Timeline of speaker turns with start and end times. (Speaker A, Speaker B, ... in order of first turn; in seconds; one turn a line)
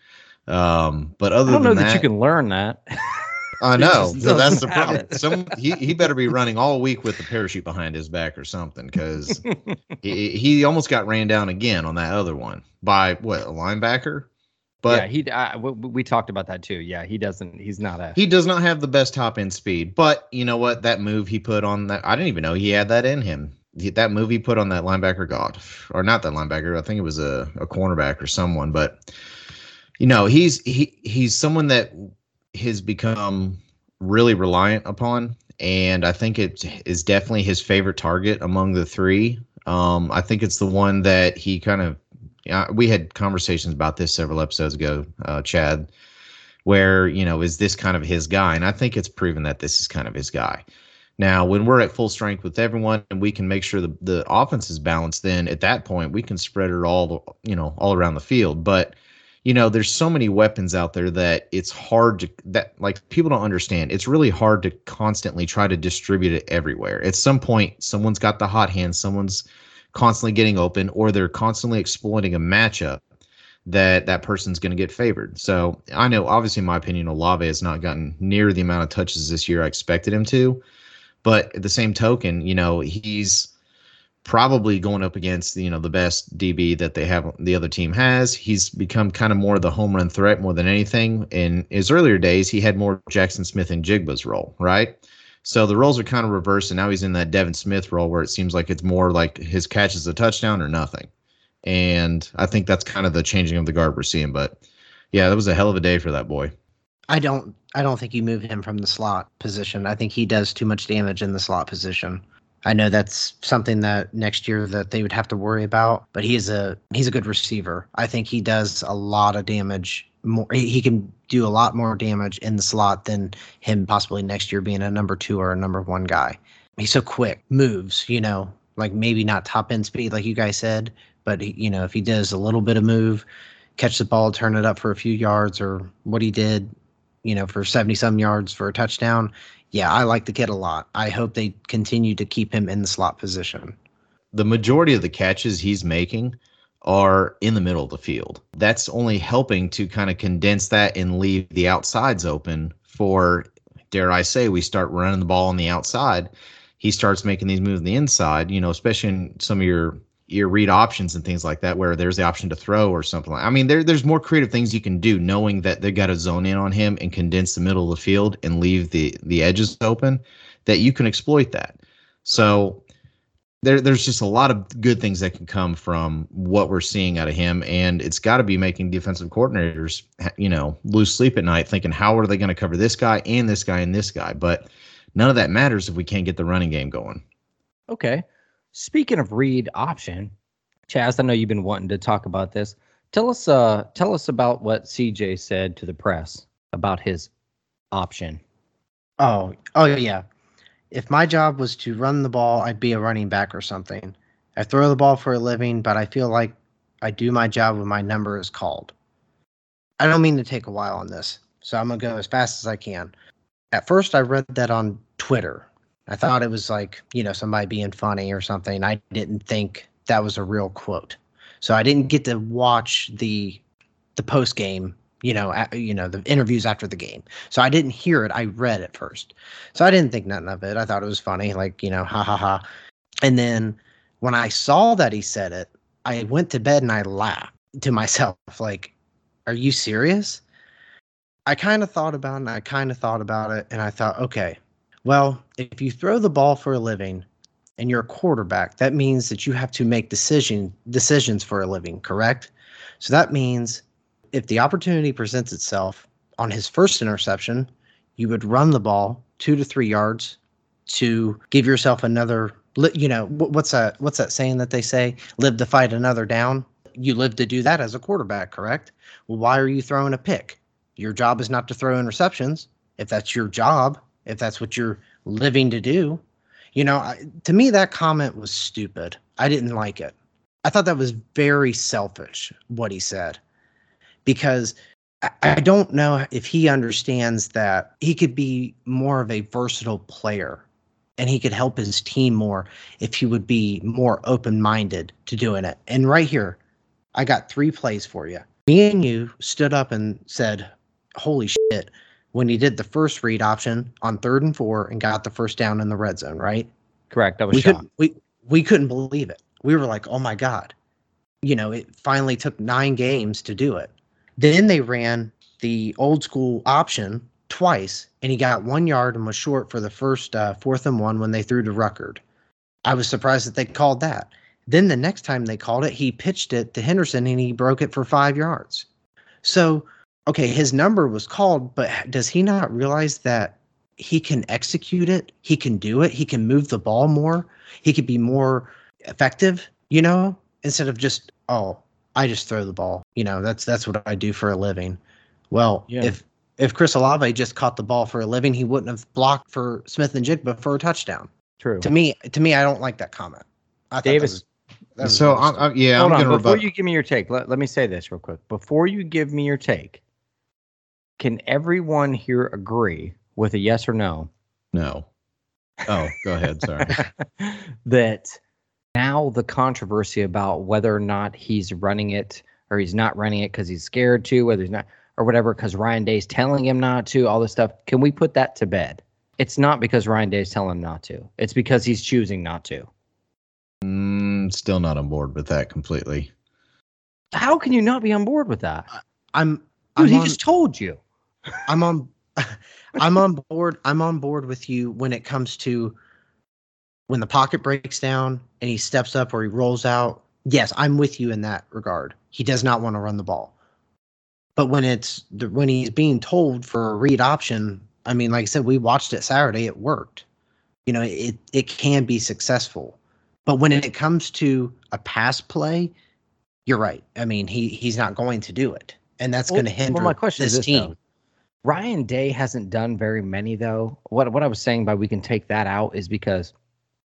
Speaker A: 0.5-2.1
Speaker B: 1.5-6.1
Speaker A: 3.6-9.4
Speaker B: 9.3-9.8
Speaker A: 10.0-14.3
Speaker A: 14.8-15.1
Speaker B: 14.9-18.2
Speaker A: 18.1-29.0
Speaker A: 30.0-45.9
Speaker A: 46.6-50.6
Speaker A: 51.2-73.0
Speaker A: 73.7-80.6
Speaker A: 81.2-83.5
Speaker A: 84.2-101.1
Speaker A: 101.6-104.6
Speaker A: 105.1-106.5
Speaker C: 107.1-136.7
Speaker C: 137.2-143.8
Speaker A: 144.3-172.8
Speaker A: 173.6-187.2
Speaker B: 187.9-190.3
Speaker B: 190.9-197.3
Speaker B: 197.9-198.4
Speaker C: 199.2-200.2
Speaker C: 200.9-208.9
Speaker C: 210.0-213.1
Speaker C: 213.7-223.6
Speaker C: 224.2-232.6
Speaker C: 233.2-238.9
Speaker C: 239.5-240.4
Speaker C: 241.5-247.3
Speaker C: 247.8-276.2
Speaker C: 276.7-283.4
Speaker C: 284.2-290.6
Speaker C: 291.2-296.6
Speaker C: 297.1-306.7
Speaker B: 307.1-307.8
Speaker C: 307.5-310.7
Speaker C: 311.4-322.2
Speaker C: 322.9-328.9
Speaker C: 329.4-345.0
Speaker C: 345.5-351.3
Speaker B: 345.9-346.1
Speaker B: 351.6-351.9
Speaker C: 351.8-354.4
Speaker B: 354.0-354.4
Speaker C: 355.0-355.6
Speaker A: 355.0-356.6
Speaker B: 356.0-360.0
Speaker B: 361.2-364.3
Speaker A: 364.7-365.1
Speaker A: 365.9-367.0
Speaker B: 366.9-368.4
Speaker B: 368.9-382.9
Speaker A: 383.8-386.3
Speaker B: 387.3-388.9
Speaker C: 388.9-390.4
Speaker B: 390.0-391.0
Speaker C: 391.7-396.0
Speaker C: 397.1-403.5
Speaker C: 404.6-410.2
Speaker C: 410.9-415.9
Speaker C: 416.6-420.9
Speaker B: 419.5-421.0
Speaker B: 421.6-426.5